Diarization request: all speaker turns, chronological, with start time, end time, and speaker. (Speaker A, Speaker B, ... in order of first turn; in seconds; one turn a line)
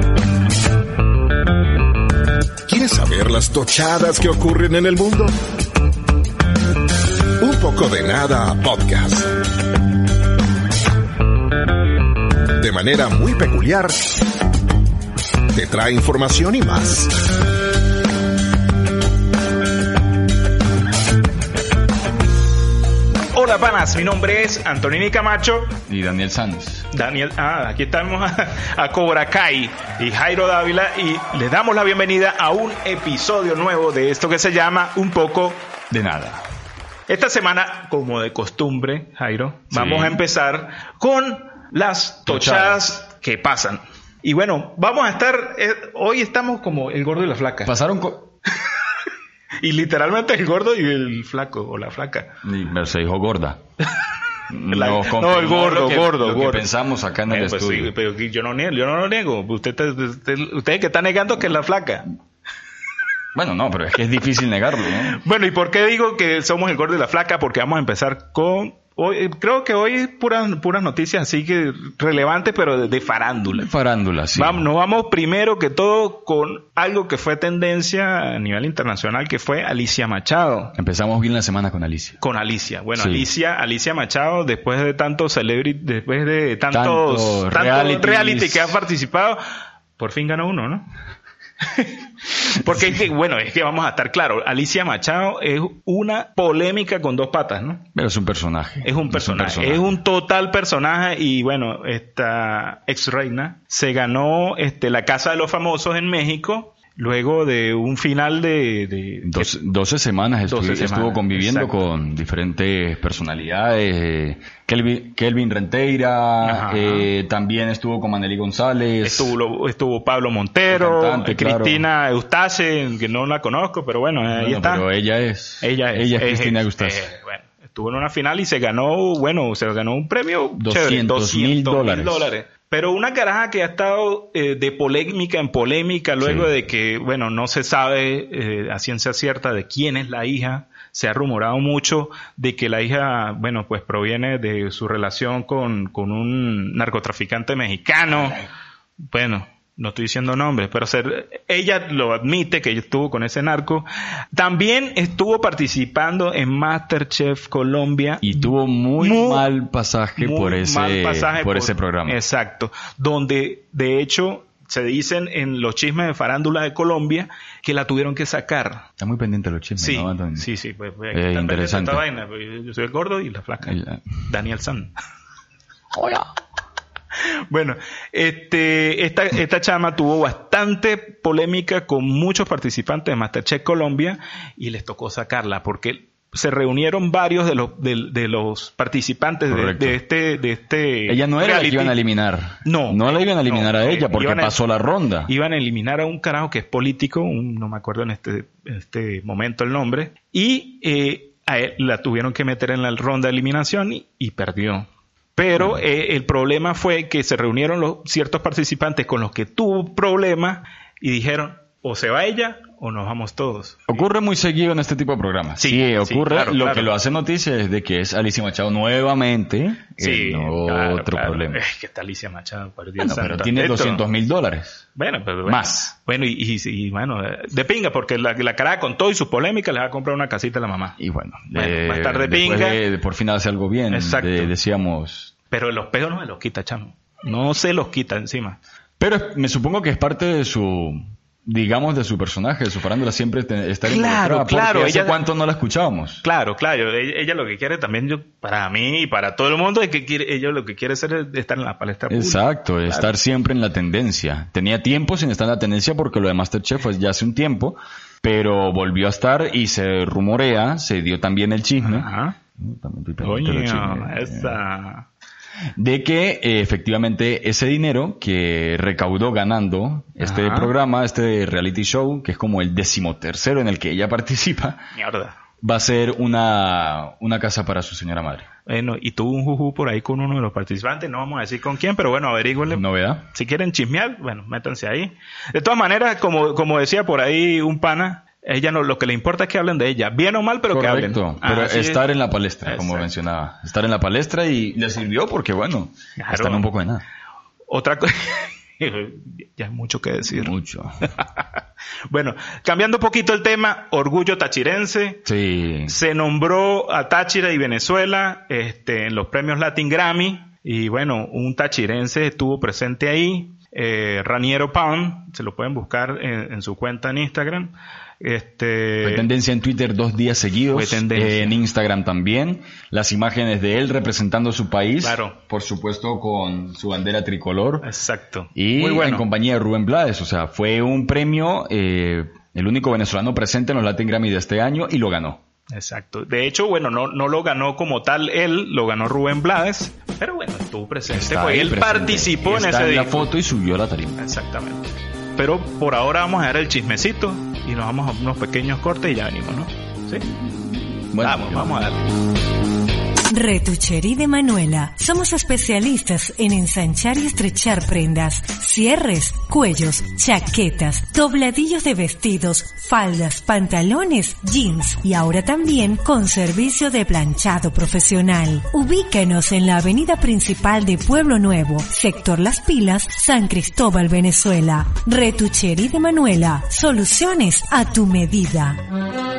Speaker A: 2.7-5.3
Speaker A: 7.4-9.3
Speaker A: 12.6-14.1
Speaker A: 15.5-17.1
Speaker B: 23.3-25.7
Speaker C: 25.9-26.9
Speaker B: 26.9-35.7
Speaker C: 35.9-36.5
Speaker B: 37.1-47.7
Speaker C: 39.7-40.2
Speaker C: 42.2-42.9
Speaker C: 47.6-48.3
Speaker B: 49.6-52.3
Speaker C: 52.4-53.6
Speaker C: 54.5-57.9
Speaker B: 54.7-56.7
Speaker B: 57.3-62.1
Speaker C: 63.3-65.2
Speaker B: 65.0-73.7
Speaker C: 73.5-74.7
Speaker B: 74.3-80.7
Speaker C: 80.7-82.2
Speaker B: 82.2-89.4
Speaker C: 83.0-83.3
Speaker C: 86.7-88.8
Speaker B: 90.0-90.9
Speaker B: 91.7-97.8
Speaker C: 97.9-99.9
Speaker B: 98.8-109.5
Speaker C: 109.2-119.3
Speaker B: 110.5-111.8
Speaker B: 116.4-117.1
Speaker B: 119.0-124.9
Speaker C: 120.7-121.8
Speaker C: 124.3-127.1
Speaker B: 125.6-148.4
Speaker C: 130.6-132.3
Speaker C: 136.2-136.5
Speaker B: 149.1-159.5
Speaker C: 158.2-162.2
Speaker B: 160.2-168.8
Speaker C: 169.0-170.4
Speaker B: 169.8-173.7
Speaker C: 171.1-172.0
Speaker C: 173.6-174.0
Speaker B: 174.3-174.9
Speaker C: 175.9-176.3
Speaker B: 177.5-192.0
Speaker C: 189.5-190.0
Speaker C: 191.1-195.3
Speaker B: 192.6-194.6
Speaker B: 195.3-213.8
Speaker C: 213.9-221.6
Speaker B: 215.6-216.9
Speaker B: 220.0-224.0
Speaker C: 223.0-224.8
Speaker B: 225.0-231.0
Speaker C: 225.4-225.9
Speaker C: 231.0-235.3
Speaker B: 231.5-232.8
Speaker B: 233.9-234.5
Speaker B: 235.5-238.6
Speaker C: 239.0-246.2
Speaker B: 243.8-245.1
Speaker B: 246.2-253.1
Speaker C: 252.1-264.6
Speaker B: 261.8-262.3
Speaker B: 263.2-265.1
Speaker C: 265.8-274.8
Speaker B: 270.2-270.7
Speaker B: 274.9-275.4
Speaker C: 275.6-278.5
Speaker B: 278.6-292.0
Speaker C: 282.7-283.2
Speaker C: 290.7-297.0
Speaker B: 292.6-293.1
Speaker B: 296.2-296.6
Speaker B: 297.7-300.5
Speaker C: 300.3-301.1
Speaker B: 302.1-305.2
Speaker C: 305.2-305.9
Speaker B: 305.9-319.3
Speaker C: 319.0-327.9
Speaker B: 320.7-321.6
Speaker B: 325.0-325.4
Speaker B: 327.8-329.3
Speaker C: 328.5-335.4
Speaker B: 335.7-343.3
Speaker C: 341.1-344.2
Speaker B: 344.2-350.2
Speaker C: 351.1-351.8
Speaker B: 351.2-352.1
Speaker D: 353.3-378.8